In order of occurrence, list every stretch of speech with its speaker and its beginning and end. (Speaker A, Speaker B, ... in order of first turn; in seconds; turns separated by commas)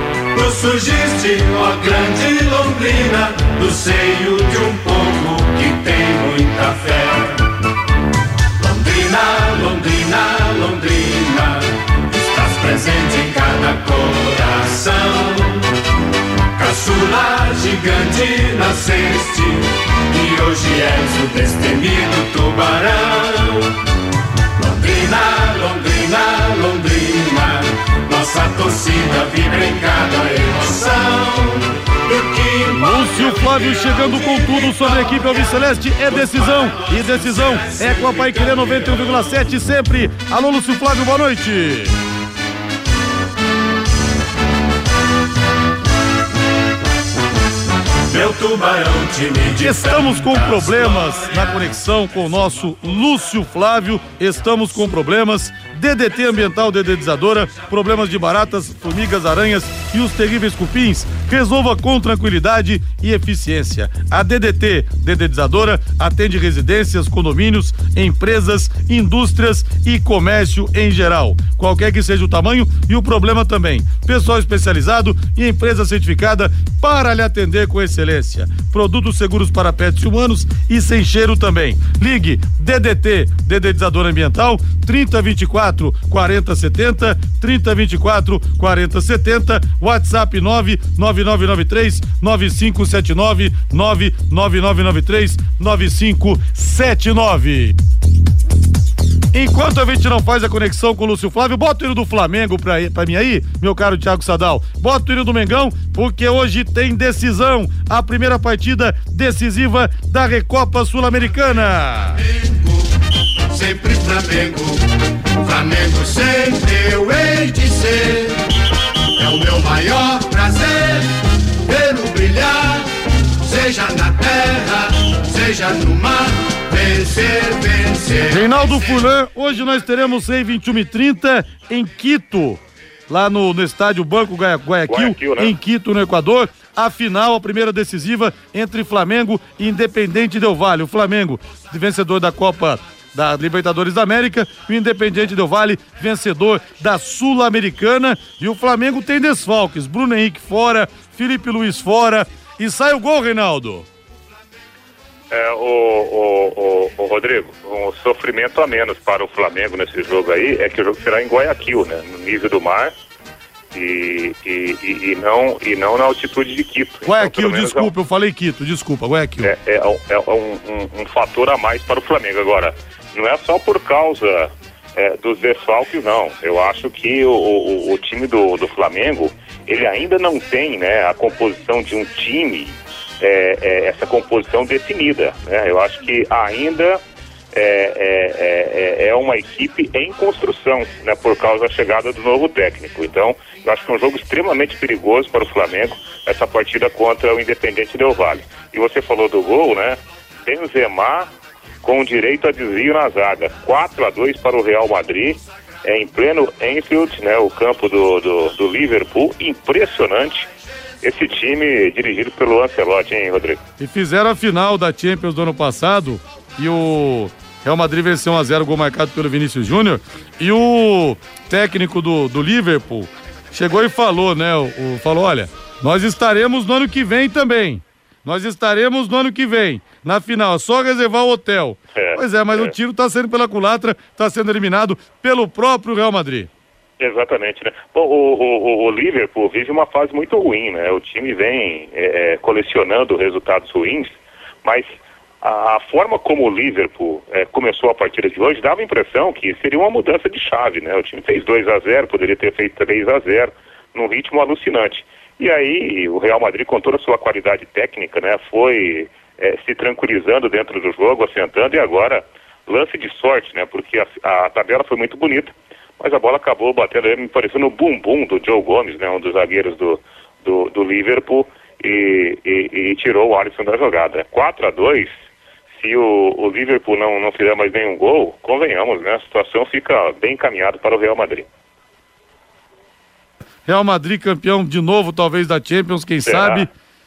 Speaker A: 0.3-7.5, Speaker A: 8.6-15.7, Speaker A: 16.6-23.7, Speaker A: 24.6-39.4, Speaker B: 32.7-42.0, Speaker A: 48.1-52.6, Speaker B: 49.6-97.8, Speaker B: 99.3-112.2, Speaker A: 112.3-112.7, Speaker A: 113.5-114.9, Speaker A: 115.4-118.4, Speaker A: 119.2-128.9, Speaker B: 128.3-153.9, Speaker C: 134.9-135.5, Speaker C: 155.3-162.9, Speaker C: 163.7-167.9, Speaker B: 167.1-169.5, Speaker C: 169.4-187.0, Speaker C: 187.5-201.3, Speaker C: 201.8-210.5, Speaker C: 211.0-213.6, Speaker B: 213.8-236.5, Speaker C: 232.0-232.7, Speaker C: 237.0-275.1, Speaker C: 275.8-281.5, Speaker B: 283.7-286.7, Speaker C: 286.3-286.7